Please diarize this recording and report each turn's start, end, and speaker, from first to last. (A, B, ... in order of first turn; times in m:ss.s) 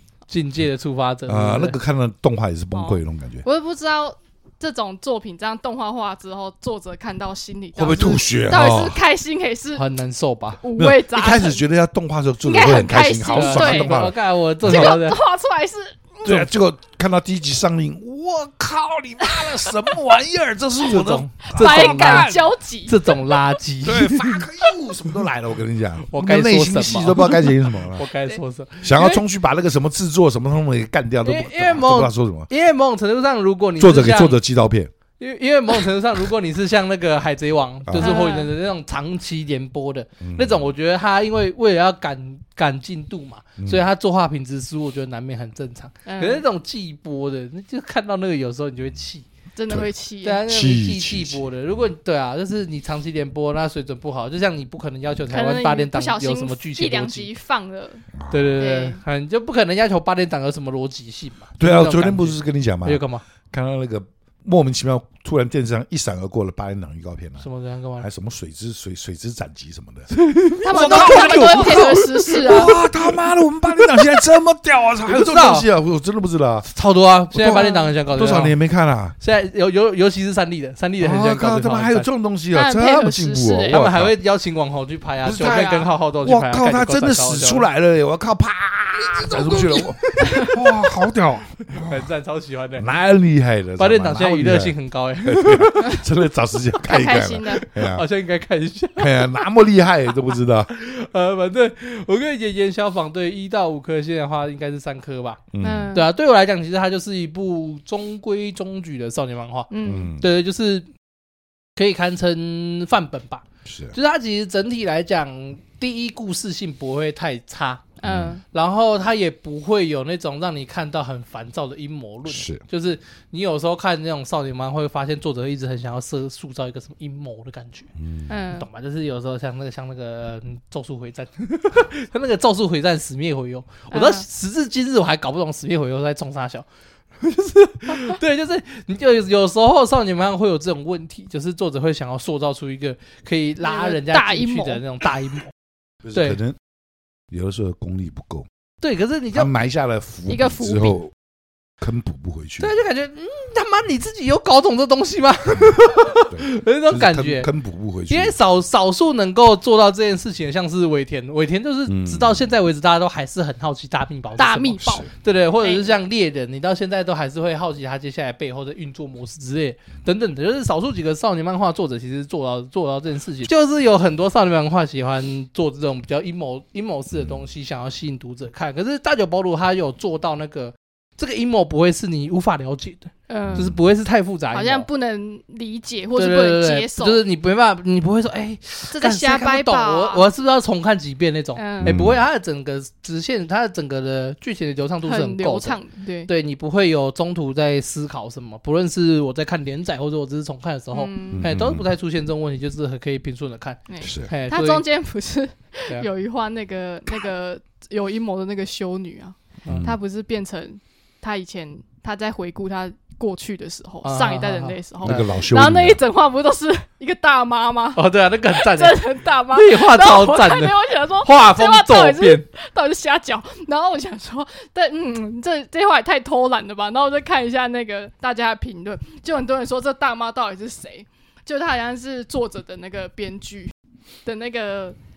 0:00.3-0:01.8 A
0:01.3-0:03.4 B
0:02.7-0:09.8 C
0:07.8-0:09.0 B
0:09.8-0:10.6 A
0:10.6-0:11.6 C
0:10.8-0:15.0 B
0:12.4-0:14.1 C
0:13.3-0:15.2 A
0:14.6-0:16.3 C
0:16.2-0:22.5 B
0:19.3-0:19.8 C
0:20.8-0:22.3 A
0:21.5-0:23.6 C
0:22.9-0:24.4 A
0:23.8-0:28.0 B
0:26.0-0:29.2 A
0:28.8-0:32.5 B
0:31.2-0:34.4 A
0:33.8-0:34.9 B
0:35.2-0:49.3 A
0:37.9-0:38.3 B
0:38.0-0:38.5 C
0:40.2-0:40.7 B
0:43.6-0:43.9 B
0:46.1-0:46.4 C
0:49.6-0:50.4 C
0:50.2-0:57.3 A
0:50.5-0:51.5 B
0:55.3-0:59.0 C
0:58.1-0:58.6 B
0:58.3-1:03.2 A
1:01.6-1:07.5 B
1:07.4-1:08.1 A
1:08.0-1:10.1 B
1:10.1-1:14.2 A
1:10.6-1:12.8 C
1:10.7-1:16.7 B
1:15.0-1:15.7 A
1:16.7-1:18.6 A
1:17.3-1:19.2 B
1:17.5-1:17.9 C
1:19.2-1:22.1 A
1:21.0-1:24.2 B
1:22.5-1:23.8 C
1:23.7-1:27.7 A
1:25.2-1:32.1 B
1:25.3-1:25.9 C
1:29.4-1:30.6 C
1:29.8-1:30.5 A
1:31.7-1:32.9 A
1:32.8-1:38.0 B
1:33.8-1:36.0 A
1:36.8-1:37.7 C
1:37.5-1:39.5 A
1:39.0-1:40.7 B
1:40.7-1:50.9 A
1:45.5-1:46.0 B
1:45.6-1:46.1 C
1:49.7-1:50.1 C
1:49.8-1:50.2 B
1:51.8-1:57.9 A
1:53.6-1:54.0 B
1:58.0-1:58.4 C
1:58.0-1:58.4 B
1:58.5-2:07.9 A
2:02.3-2:02.6 B
2:08.0-2:08.3 B
2:08.3-2:08.7 C
2:08.5-2:16.7 A
2:13.9-2:14.3 C
2:17.2-2:25.5 A
2:23.6-2:24.8 C
2:26.0-2:26.6 B
2:26.1-2:26.4 A
2:27.3-2:28.5 B
2:28.8-2:29.5 A
2:29.3-2:31.1 B
2:30.3-2:31.0 C
2:31.8-2:32.7 B
2:32.6-2:37.5 A
2:36.3-2:38.4 B
2:38.1-3:04.9 A
2:41.9-2:42.5 B
2:44.4-2:45.1 C
2:44.8-2:45.1 B
2:45.6-2:46.0 C
3:03.3-3:03.7 C
3:03.5-3:03.8 B
3:04.5-3:07.2 C
3:06.2-3:24.8 A
3:08.9-3:10.3 C
3:11.6-3:12.0 C
3:11.8-3:12.2 B
3:15.0-3:16.3 C
3:20.9-3:21.6 C
3:21.3-3:21.9 B
3:23.9-3:53.7 C
3:24.0-3:24.3 B
3:29.6-3:29.9 A
3:29.7-3:30.0 B
3:34.0-3:35.3 A
3:35.0-3:36.0 B
3:38.0-3:42.5 A
3:54.2-3:55.0 C